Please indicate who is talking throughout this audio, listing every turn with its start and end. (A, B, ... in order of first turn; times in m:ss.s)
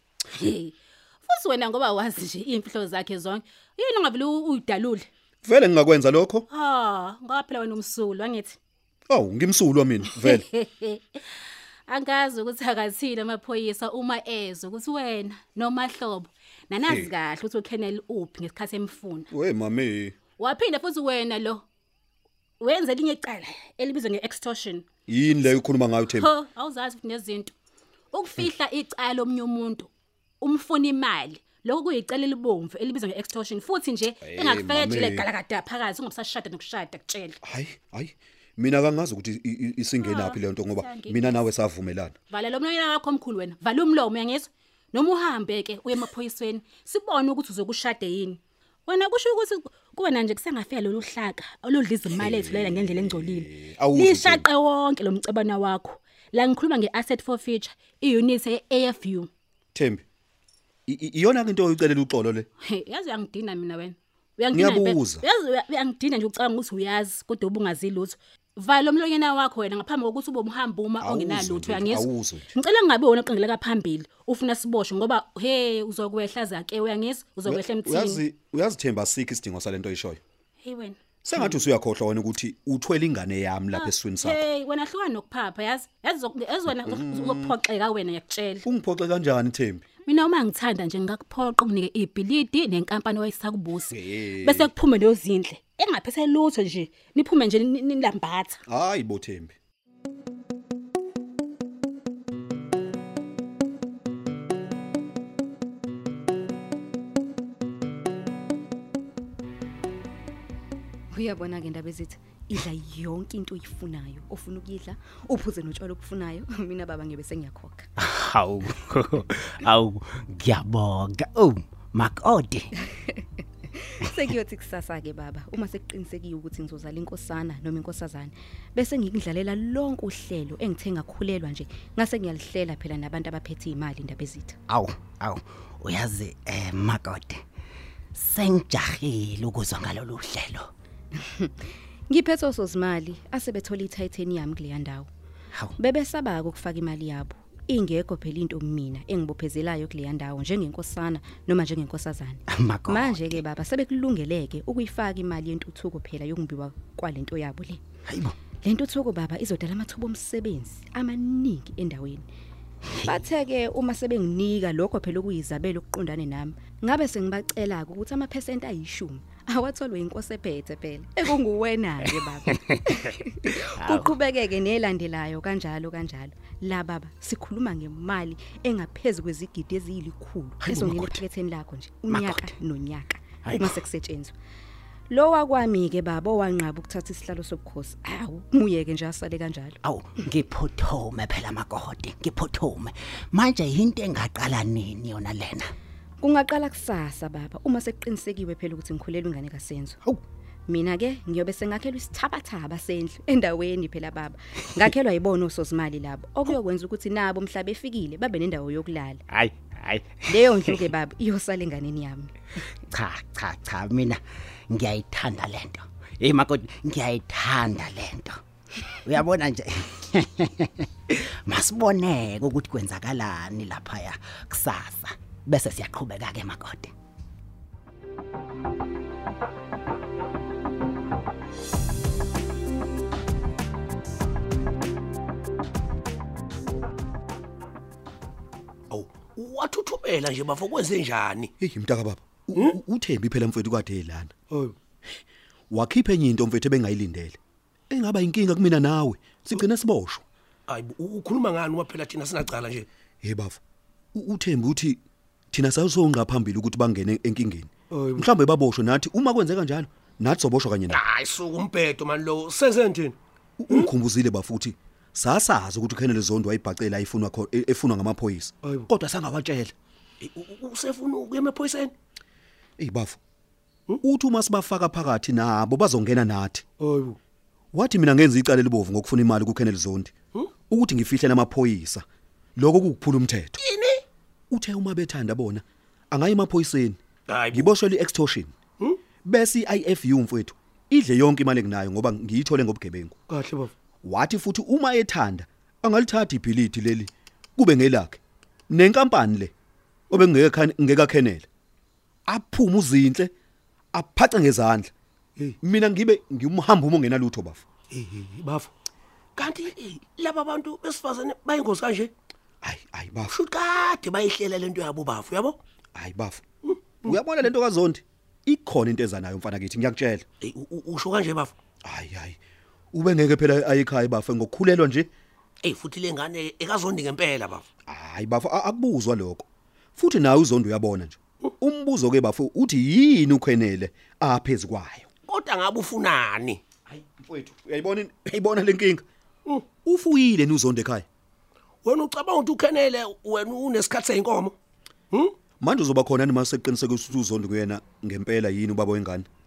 0:01.3-0:05.0 A
0:05.4-0:06.4 B
0:06.6-0:08.5 A
0:09.1-0:10.4 B
0:10.2-0:10.9 C
0:11.9-0:16.3 A
0:16.7-0:17.1 C
0:16.8-0:17.1 B
0:17.1-0:19.2 A
0:19.3-0:20.2 B
0:20.4-0:21.6 A
0:22.6-0:24.8 A
0:25.1-0:26.3 B
0:26.1-0:26.6 C
0:26.6-0:27.5 A
0:28.2-0:29.8 A
0:28.3-0:28.7 C
0:30.5-0:34.2 A
0:31.4-0:31.8 C
0:34.2-0:35.2 B
0:34.3-0:35.2 C
0:35.2-0:37.3 A
0:37.4-0:42.1 B
0:40.0-0:40.4 C
0:40.9-0:41.2 C
0:42.4-0:48.4 A
0:48.9-0:52.1 A
0:52.1-0:53.2 C
0:52.1-0:54.5 B
0:53.9-0:54.6 C
0:54.0-0:59.2 A
0:59.7-1:00.0 B
1:00.9-1:02.5 B
1:02.8-1:03.9 A
1:04.4-1:05.2 C
1:04.5-1:05.2 B
1:05.3-1:11.1 A
1:11.0-1:12.1 C
1:11.0-1:12.5 B
1:12.6-1:17.9 A
1:17.4-1:20.2 B
1:17.5-1:18.2 C
1:20.6-1:20.9 A
1:21.2-1:24.5 B
1:24.5-1:28.6 A
1:26.7-1:27.6 B
1:28.6-1:29.8 B
1:30.1-1:33.8 A
1:33.9-1:34.7 B
1:34.3-1:34.7 C
1:34.8-1:38.6 A
1:38.7-1:39.5 B
1:51.1-1:57.9 D
1:58.0-2:02.7 E
2:04.0-2:14.6 D
2:14.7-2:17.4 E
2:18.1-2:20.7 E
2:21.4-2:25.1 D
2:25.8-2:37.8 D
2:32.5-2:33.4 E
2:38.0-2:38.3 E
2:38.5-2:42.2 D
2:43.0-3:04.3 D
2:52.4-2:53.0 E
2:53.6-2:54.1 E
3:00.6-3:01.2 E
3:02.1-3:02.6 E
3:03.4-3:03.7 E
3:05.1-3:09.8 D
3:09.8-3:15.7 E
3:16.2-3:20.0 D
3:20.7-3:29.2 D
3:29.3-3:30.8 E
3:30.3-3:32.3 D
3:32.9-3:38.4 E
3:38.9-3:46.9 E
3:58.9-4:01.5 C
4:01.6-4:04.3 B
4:05.7-4:07.4 B
4:07.9-4:10.2 B
4:10.7-4:12.9 C
4:13.2-4:13.6 B
4:14.1-4:15.0 B
4:15.5-4:21.0 B
4:20.9-4:23.2 C
4:23.6-4:29.7 B
4:30.2-4:31.9 C
4:32.8-4:33.2 B
4:34.0-4:36.6 B
4:36.9-4:37.1 E
4:37.7-4:40.1 B
4:40.7-4:43.6 B
4:43.6-4:44.0 C
4:44.5-4:47.0 B
4:47.3-4:47.7 C
4:47.5-4:48.5 B
4:49.2-4:53.1 B
4:54.0-4:59.5 B
5:00.1-5:01.4 B
5:02.3-5:03.3 B
5:03.9-5:04.9 B
5:05.6-5:07.6 B
5:09.4-5:12.1 C
5:12.6-5:13.4 B
5:13.3-5:15.6 C
5:15.9-5:16.4 B
5:17.0-5:20.2 B
5:20.4-5:21.5 C
5:21.8-5:22.4 B
5:22.9-5:25.1 B
5:25.6-5:27.6 C
5:27.9-5:29.4 B
5:30.0-5:35.1 B
5:35.3-5:36.6 C
5:36.9-5:39.0 B
5:39.8-5:41.0 B
5:41.8-5:44.5 C
5:45.6-5:49.3 B